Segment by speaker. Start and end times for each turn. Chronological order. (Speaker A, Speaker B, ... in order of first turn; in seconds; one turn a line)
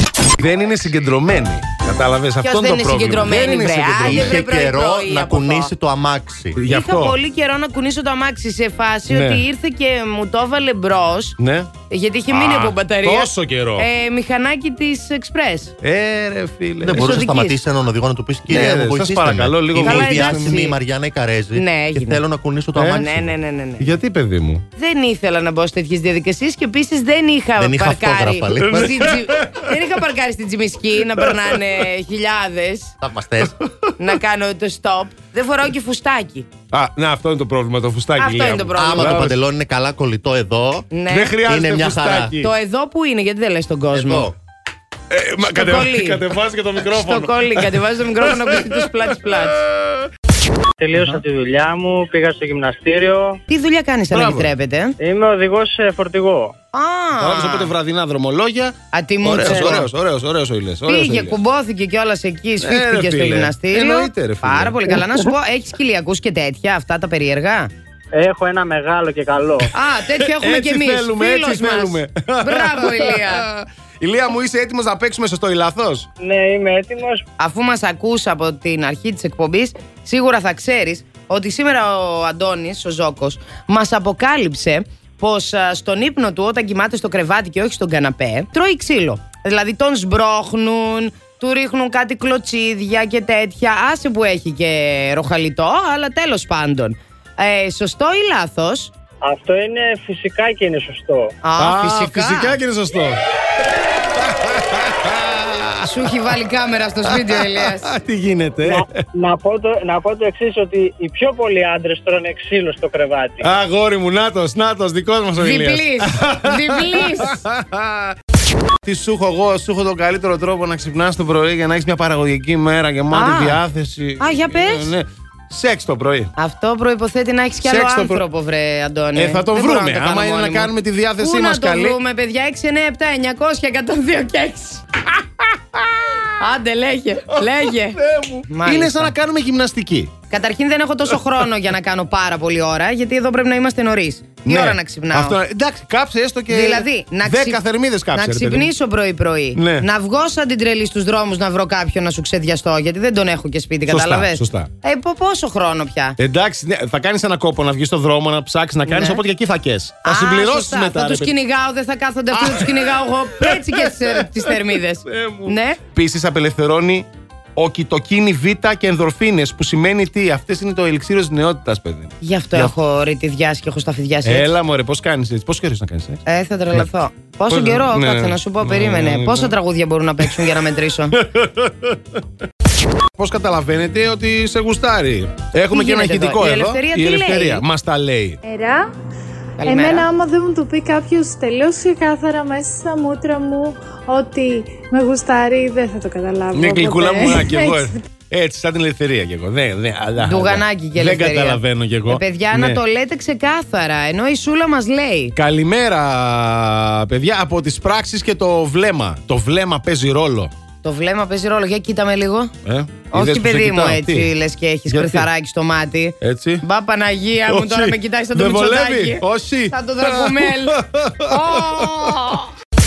Speaker A: 0.4-4.4
Speaker B: 2.4-5.7
Speaker C: 4.1-6.6
Speaker A: 6.6-7.2
Speaker B: 6.7-11.4
Speaker A: 9.1-9.4
Speaker A: 11.4-11.7
Speaker B: 11.9-15.7
Speaker A: 12.3-13.9
Speaker A: 15.8-17.2
Speaker C: 16.8-23.3
Speaker B: 16.9-17.6
Speaker A: 18.5-20.5
Speaker B: 19.8-20.8
Speaker B: 21.6-22.2
Speaker A: 22.8-23.0
Speaker B: 22.9-23.9
Speaker A: 23.8-24.6
Speaker B: 24.8-33.0
Speaker C: 27.6-29.0
Speaker A: 28.6-29.7
Speaker C: 33.0-33.5
Speaker B: 34.0-36.5
Speaker A: 36.7-39.4
Speaker B: 38.2-39.4
Speaker C: 38.8-40.9
Speaker B: 40.9-41.4
Speaker A: 41.1-42.5
Speaker C: 41.5-42.4
Speaker B: 42.4-44.3
Speaker C: 44.0-44.3
Speaker A: 45.1-49.0
Speaker B: 45.4-46.2
Speaker B: 46.8-49.7
Speaker A: 49.7-50.1
Speaker D: 50.8-53.4
Speaker B: 53.5-55.0
Speaker A: 54.1-54.5
Speaker D: 55.0-56.5
Speaker B: 56.7-57.7
Speaker A: 57.2-61.4
Speaker B: 58.9-59.9
Speaker D: 59.5-59.9
Speaker B: 60.9-67.7
Speaker A: 62.6-65.2
Speaker D: 68.1-69.7
Speaker B: 69.7-73.5
Speaker A: 70.2-76.1
Speaker D: 76.2-77.2
Speaker B: 77.4-98.9
Speaker D: 99.2-101.3
Speaker B: 101.4-102.6
Speaker A: 101.6-103.2
Speaker A: 104.2-105.9
Speaker B: 105.8-107.9
Speaker A: 107.1-108.9
Speaker D: 108.7-113.5
Speaker A: 113.4-118.2
Speaker B: 115.4-117.4
Speaker A: 118.8-126.3
Speaker B: 123.1-123.6
Speaker B: 124.2-124.9
Speaker B: 126.4-134.9
Speaker A: 127.6-128.2
Speaker A: 129.2-132.0
Speaker A: 135.8-136.2
Speaker B: 136.4-139.2
Speaker A: 137.4-140.1
Speaker B: 140.3-145.4
Speaker A: 144.4-148.7
Speaker B: 146.5-147.6
Speaker B: 148.1-156.2
Speaker A: 149.6-149.9
Speaker A: 153.9-154.7
Speaker A: 156.2-161.3
Speaker B: 158.9-159.2
Speaker B: 160.0-165.8
Speaker A: 162.3-172.7
Speaker B: 172.2-174.6
Speaker A: 174.2-176.2
Speaker B: 176.3-181.2
Speaker A: 177.5-179.6
Speaker A: 180.2-180.6
Speaker A: 181.2-182.0
Speaker A: 183.2-188.4
Speaker B: 185.7-187.7
Speaker E: 188.4-188.9
Speaker B: 189.6-190.1
Speaker E: 189.6-197.9
Speaker A: 196.5-202.8
Speaker B: 200.2-205.3
Speaker A: 205.4-210.5
Speaker B: 210.8-212.5
Speaker A: 212.7-214.3
Speaker B: 213.1-222.5
Speaker A: 214.9-215.3
Speaker A: 216.2-216.6
Speaker A: 217.5-222.3